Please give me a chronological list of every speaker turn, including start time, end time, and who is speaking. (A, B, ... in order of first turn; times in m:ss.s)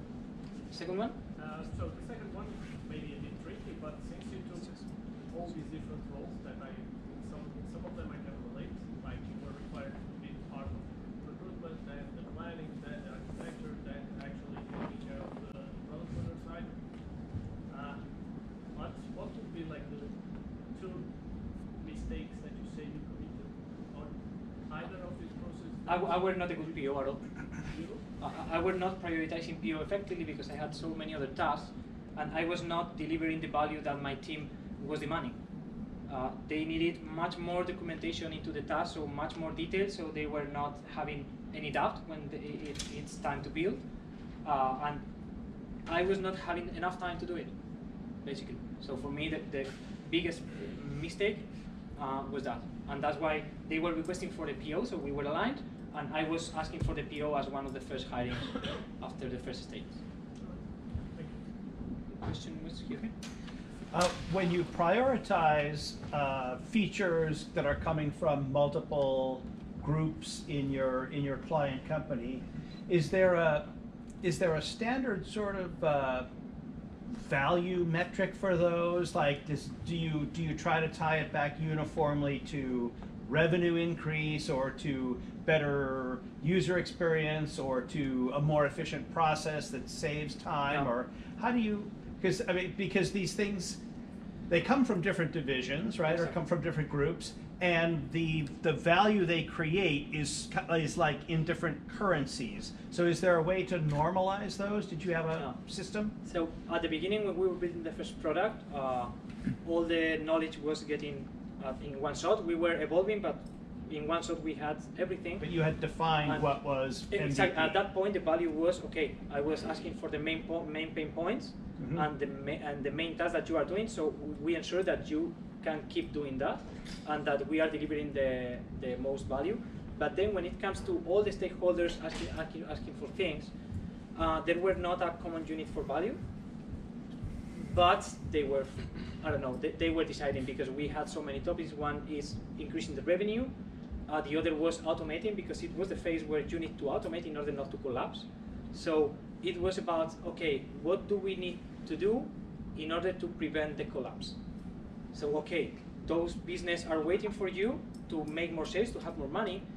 0:00.7-0:01.2 A
0:01.4-0:28.1 B
0:25.8-0:35.4 A
0:36.1-0:43.8 A
0:44.4-0:45.0 A
0:45.8-0:47.5 A
0:48.2-1:00.0 A
1:00.4-1:01.4 B
1:02.1-1:03.1 A
1:03.9-1:16.3 C
1:17.1-1:33.8 C
1:30.7-1:30.9 A
1:34.5-1:46.1 C
1:36.0-1:36.3 A
1:46.2-1:55.5 A
1:55.4-1:57.8 C
1:56.2-2:13.5 A
2:01.8-2:02.0 C
2:14.1-2:16.2 A
2:17.5-2:23.5 A
2:24.0-2:34.4 A
2:35.1-2:39.6 A